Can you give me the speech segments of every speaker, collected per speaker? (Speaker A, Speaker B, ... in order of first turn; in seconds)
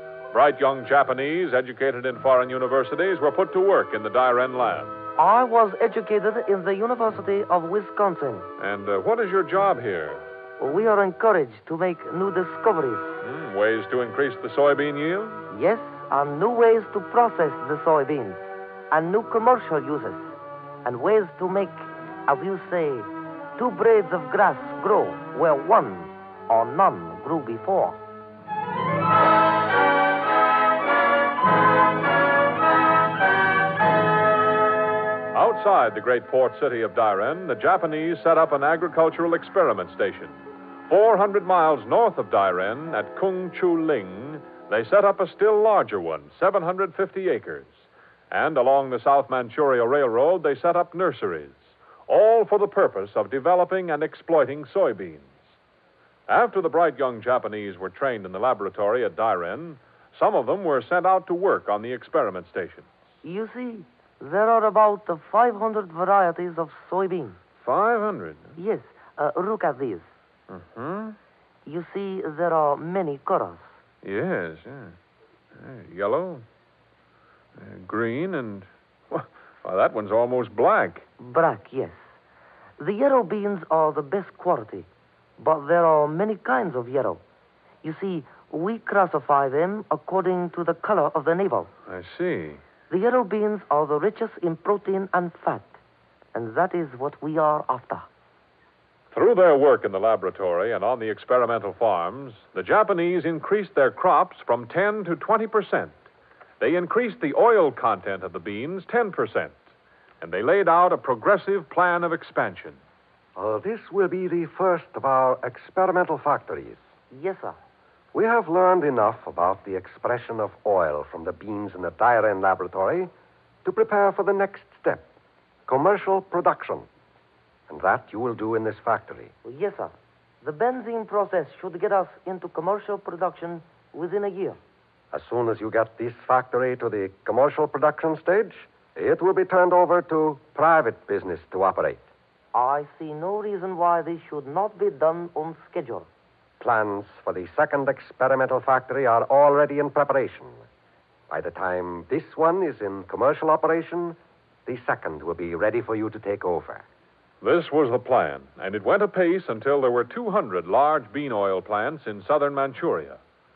Speaker A: 0.3-5.0, 8.6-10.2, 13.2-15.4, 35.3-55.3, 56.3-62.9, 67.6-68.5, 70.5-71.2, 74.0-75.0, 75.5-76.5, 77.6-81.1, 91.9-92.6, 99.1-105.9, 106.6-109.5, 110.2-112.8, 157.4-163.2
Speaker B: 5.2-8.5, 10.6-13.2, 15.5-20.3, 20.9-28.0, 63.2-67.4, 68.6-70.1, 71.7-73.8, 81.2-82.1, 82.8-87.2, 87.8-91.7, 92.9-95.8, 96.3-98.1, 117.1-117.6, 129.4-134.6, 142.5-146.1
Speaker C: 113.4-116.8, 118.1-123.1, 123.7-125.1, 125.7-126.9, 127.7-129.3, 135.1-142.1, 146.6-150.7, 151.3-156.9